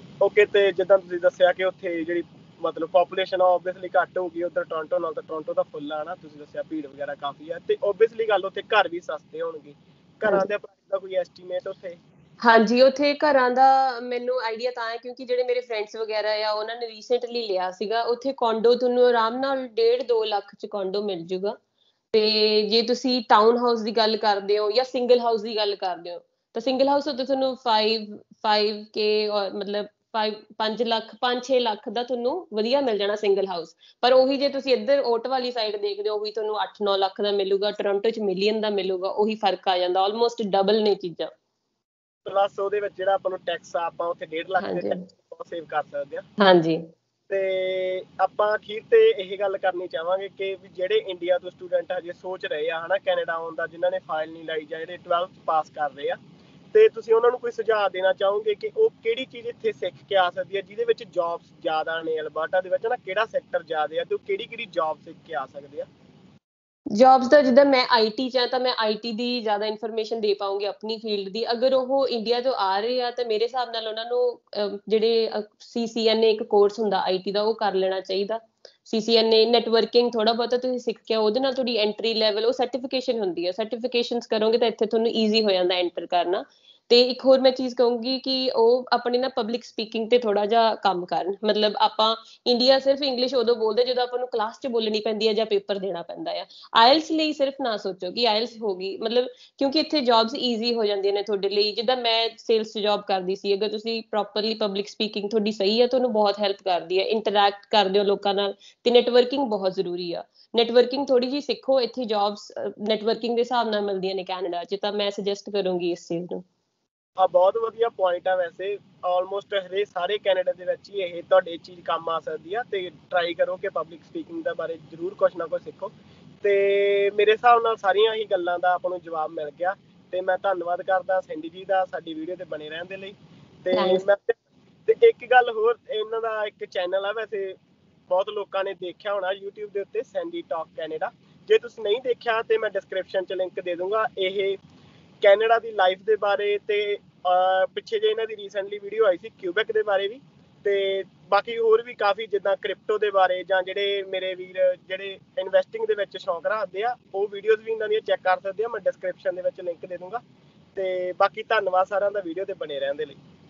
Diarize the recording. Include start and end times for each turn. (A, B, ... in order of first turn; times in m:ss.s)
0:00.2-0:12.0 A
0:12.4-0:21.6 B
0:22.1-0:41.3 B
0:42.2-0:46.2 A
0:44.6-0:45.1 B
0:46.4-0:46.8 B
0:47.3-0:56.2 A
0:56.7-1:05.9 A
1:06.9-1:56.4 B
1:57.2-2:14.4 A
2:13.7-2:14.0 B
2:14.9-2:24.6 A
2:25.2-2:40.2 A
2:40.7-2:43.2 A